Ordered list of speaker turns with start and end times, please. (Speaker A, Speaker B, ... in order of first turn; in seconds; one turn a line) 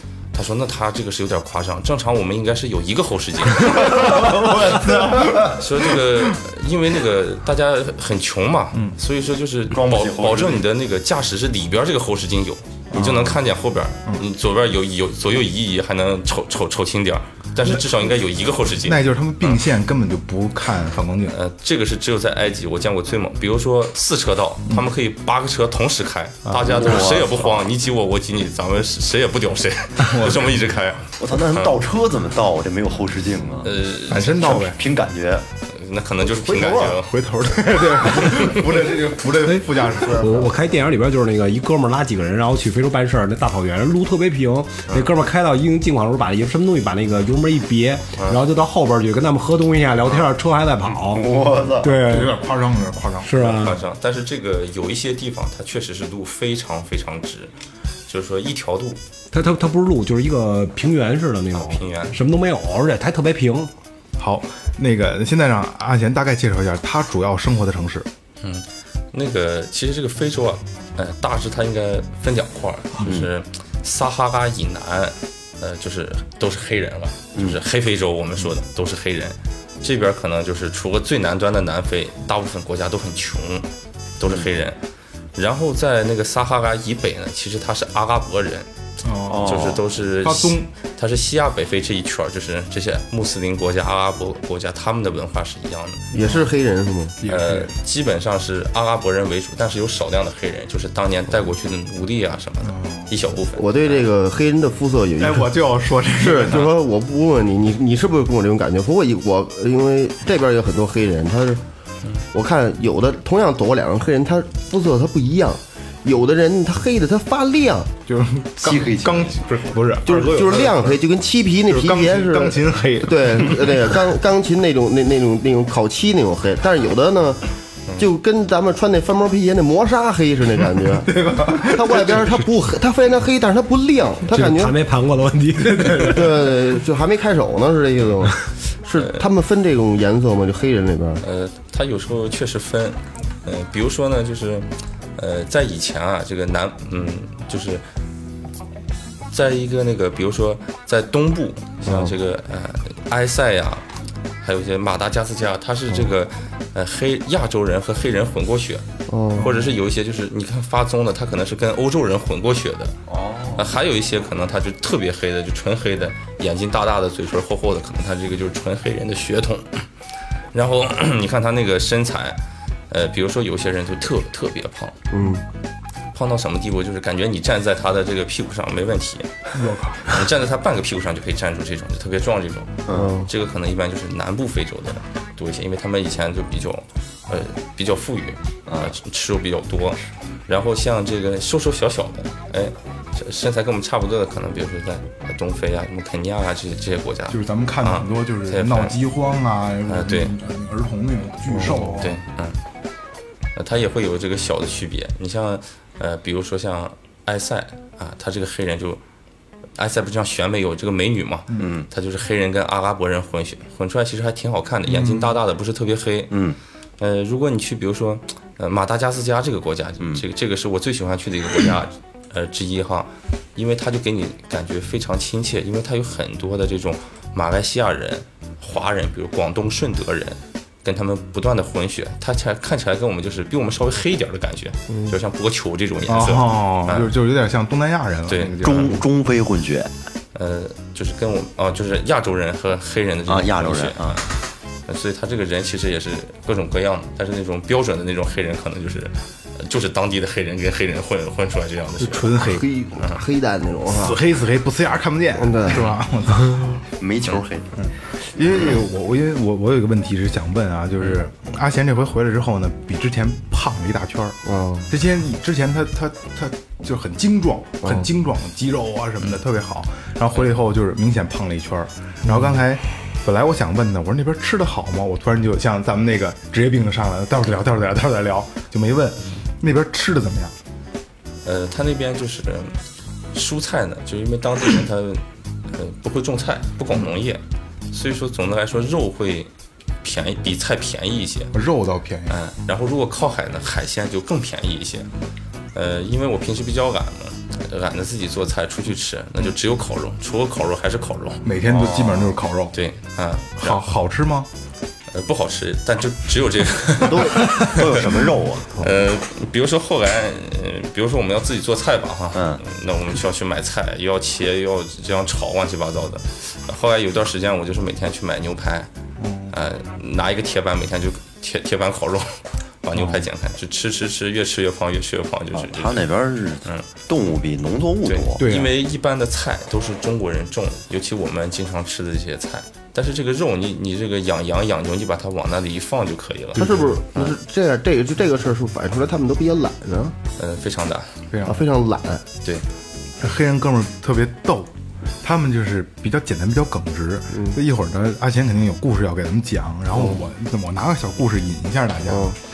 Speaker A: 0.3-3.9
Speaker B: 3.6-5.6
Speaker A: 5.4-19.6
Speaker B: 9.7-10.7
Speaker C: 12.9-13.4
Speaker C: 18.9-21.4
Speaker A: 21.3-31.8
Speaker C: 26.4-26.8
Speaker B: 26.7-27.7
Speaker C: 30.1-30.5
Speaker B: 31.2-33.8
Speaker A: 33.6-34.6
Speaker C: 34.1-34.8
Speaker B: 34.5-35.4
Speaker A: 35.7-37.1
Speaker D: 36.3-37.0
Speaker C: 37.0-40.4
Speaker E: 39.4-51.3
Speaker D: 40.1-40.5
Speaker B: 51.1-52.0
Speaker E: 51.8-52.4
Speaker C: 51.9-53.3
Speaker E: 53.2-53.8
Speaker A: 53.4-57.5
Speaker A: 58.1-59.0
Speaker E: 59.3-63.7
Speaker A: 61.5-62.2
Speaker C: 64.2-68.1
Speaker A: 68.4-83.7
Speaker B: 73.0-73.3
Speaker A: 84.2-84.8
Speaker A: 85.4-88.7
Speaker C: 89.0-89.7
Speaker B: 89.3-89.9
Speaker A: 89.4-96.0
Speaker C: 90.2-90.7
Speaker D: 96.1-97.2
Speaker C: 96.1-96.5
Speaker C: 97.2-97.7
Speaker A: 97.3-104.0
Speaker C: 102.6-103.1
Speaker D: 103.5-105.5
Speaker C: 105.2-106.8
Speaker D: 106.1-111.6
Speaker D: 112.3-117.9
Speaker C: 118.1-121.0
Speaker B: 118.6-119.4
Speaker D: 120.0-127.4
Speaker C: 121.7-123.9
Speaker D: 128.0-134.8
Speaker C: 131.0-132.4
Speaker E: 134.3-136.6
Speaker C: 135.7-136.1
Speaker D: 136.0-141.2
Speaker A: 139.0-139.2
Speaker A: 141.2-147.8
Speaker A: 149.3-153.8
Speaker D: 151.8-152.1
Speaker A: 154.4-158.8
Speaker D: 159.1-159.5
Speaker C: 159.3-159.7
Speaker A: 159.4-162.9
Speaker B: 163.1-163.7
Speaker A: 163.5-169.8
Speaker A: 170.5-172.4
Speaker A: 172.9-174.9
Speaker D: 175.1-175.4
Speaker A: 176.1-179.3
Speaker C: 179.6-180.1
Speaker A: 180.0-198.9
Speaker B: 182.8-183.1
Speaker D: 182.9-183.3
Speaker B: 188.7-188.9
Speaker C: 197.3-202.2
Speaker A: 199.9-200.3
Speaker A: 201.9-202.6
Speaker A: 203.6-209.0
Speaker A: 209.8-216.3
Speaker B: 211.6-211.9
Speaker C: 214.8-215.3
Speaker B: 216.3-216.6
Speaker A: 217.0-237.1
Speaker C: 236.1-239.0
Speaker A: 238.3-238.9
Speaker B: 238.6-239.9
Speaker A: 240.3-244.3
Speaker B: 243.3-244.2
Speaker A: 244.9-252.3
Speaker C: 252.0-252.7
Speaker D: 252.4-254.2
Speaker C: 253.9-256.8
Speaker D: 255.4-255.9
Speaker B: 257.0-257.7
Speaker C: 257.8-280.6
Speaker D: 264.4-264.9
Speaker D: 267.8-268.1
Speaker A: 281.4-282.8
Speaker A: 283.3-289.5
Speaker A: 290.0-291.5
Speaker C: 291.5-292.4
Speaker A: 292.3-295.1
Speaker A: 295.7-301.4
Speaker C: 301.4-302.8
Speaker B: 301.7-302.3
Speaker A: 302.7-303.8
Speaker C: 303.6-304.5
Speaker A: 305.1-318.9
Speaker B: 307.1-308.7
Speaker B: 312.3-312.6
Speaker C: 319.2-319.5
Speaker A: 319.5-326.1
Speaker C: 322.9-323.2
Speaker B: 325.5-328.4
Speaker A: 328.1-337.3
Speaker C: 328.4-328.8
Speaker C: 336.6-337.0
Speaker D: 336.6-340.2
Speaker A: 340.4-341.1
Speaker C: 341.3-341.6
Speaker D: 341.4-342.2
Speaker C: 343.2-352.4
Speaker D: 347.3-347.6
Speaker D: 349.9-350.2
Speaker D: 352.1-352.4